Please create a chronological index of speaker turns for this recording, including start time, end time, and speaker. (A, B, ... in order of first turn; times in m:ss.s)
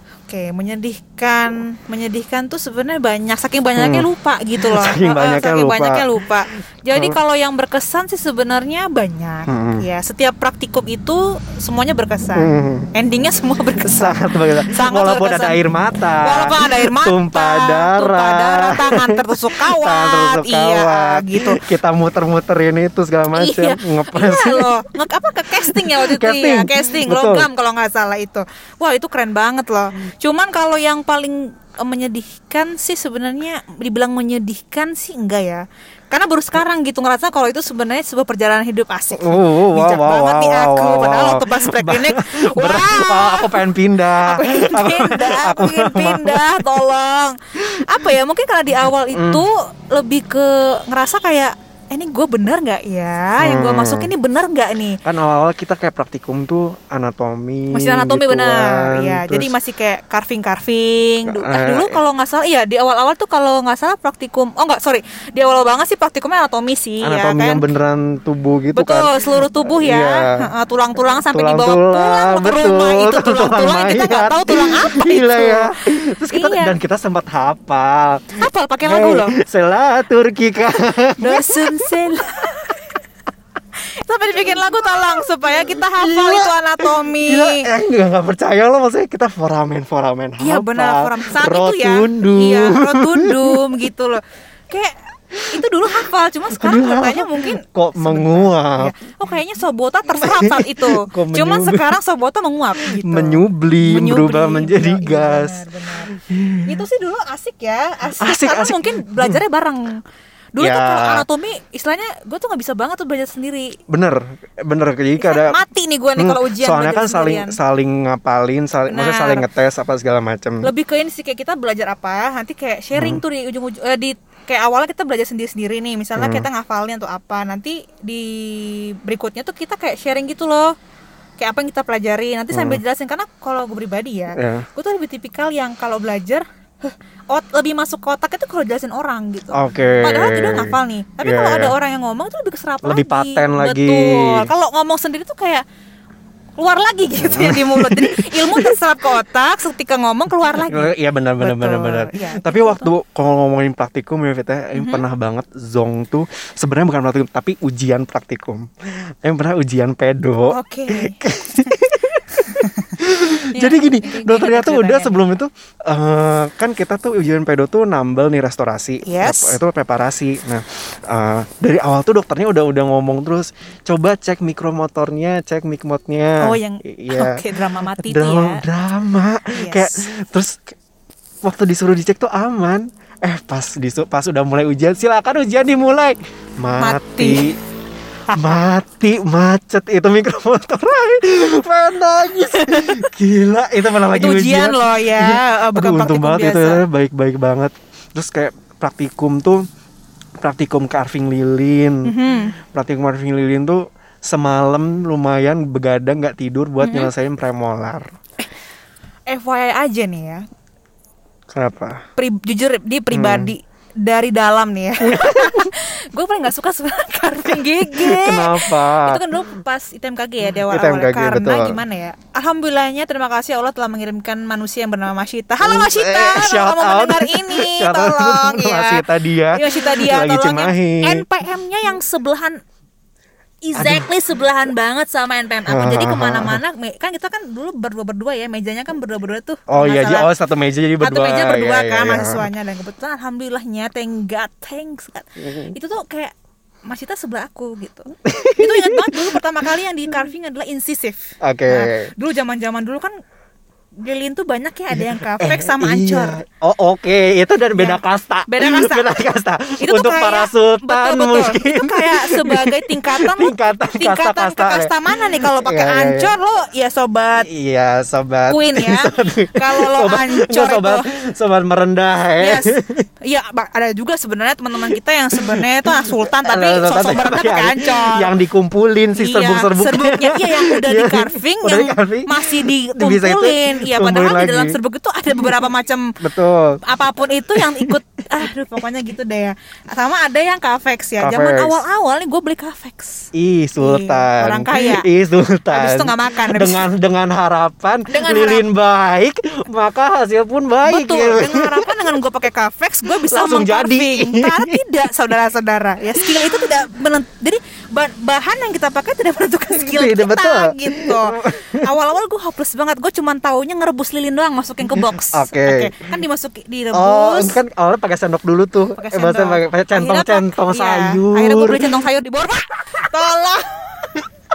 0:00.3-0:15.6 A
0:03.8-0:06.1 B
0:06.9-0:07.2 B
0:09.5-0:09.9 B
0:12.3-0:12.9 B
0:13.8-0:24.8 B
0:16.2-0:21.6 A
0:23.3-0:43.6 A
0:25.5-0:27.5 B
0:39.1-0:46.7 B
0:44.2-0:55.0 A
0:49.1-0:49.4 B
0:53.4-0:54.1 B
0:55.0-0:59.6 B
0:57.7-1:07.6 A
1:01.2-1:02.0 B
1:07.0-1:10.5 B
1:08.8-1:16.8 A
1:11.3-1:21.9 B
1:18.4-1:19.4 A
1:21.2-1:22.8 A
1:24.0-1:27.7 A
1:24.5-1:33.6 B
1:30.4-1:35.0 A
1:35.4-1:36.0 B
1:35.5-1:46.1 A
1:36.5-1:39.0 B
1:40.1-1:41.9 B
1:42.8-1:46.9 B
1:46.6-1:50.0 A
1:48.2-1:49.4 B
1:50.5-1:53.8 A
1:50.6-1:51.3 B
1:53.9-1:55.6 B
1:55.2-1:57.6 A
1:56.2-2:00.7 B
1:58.9-1:59.5 A
2:00.6-2:10.7 A
2:02.9-2:03.2 B
2:06.2-2:06.5 B
2:11.4-2:25.6 A
2:12.5-2:12.8 B
2:14.4-2:14.7 B
2:19.5-2:21.8 B
2:22.8-2:24.5 B
2:26.6-2:32.9 A
2:27.2-2:28.8 B
2:30.6-3:00.7 B
2:34.8-2:35.0 A
2:40.5-2:41.7 A
2:42.6-2:42.9 A
2:43.5-2:45.2 A
2:49.0-2:49.6 A
2:56.4-2:58.6 A
2:59.5-2:59.9 A
3:01.4-3:07.6 B
3:06.8-3:07.5 A
3:08.3-3:19.6 B
3:12.6-3:13.1 A
3:14.1-3:16.8 A
3:20.4-3:28.2 B
3:22.0-3:22.6 A
3:26.8-3:27.1 A
3:29.3-3:30.4 A
3:31.5-3:32.0 B
3:32.2-3:52.6 A
3:33.1-3:33.5 B
3:35.0-3:35.7 B
3:37.6-3:39.4 B
3:40.6-3:41.8 B
3:45.6-3:51.3 B
3:53.6-4:00.3 A
3:53.8-3:54.1 B
3:55.7-3:56.6 B
3:59.7-4:02.5 B
4:01.0-4:06.3 A
4:05.4-4:05.7 B
4:06.9-4:13.1 A
4:08.2-4:09.4 B
4:11.4-4:12.1 B
4:14.0-4:16.4 A
4:14.9-4:26.3 B
4:17.8-4:19.2 A
4:19.8-4:27.5 A
4:27.4-4:33.1 B
4:28.5-4:31.1 A
4:32.4-4:38.3 A
4:34.9-4:44.8 B
4:39.2-4:46.1 A
4:45.3-4:45.7 B
4:46.2-4:46.8 B
4:46.8-4:55.1 A
4:47.5-4:48.0 B
4:51.2-4:51.8 B
4:53.3-5:02.0 B
4:55.7-4:56.9 A
4:58.1-4:58.6 A
5:00.8-5:17.6 A
5:03.2-5:04.8 B
5:06.1-5:06.7 B
5:09.8-5:11.9 B
5:14.9-5:16.0 B
5:16.9-5:22.0 B
5:19.0-5:24.2 A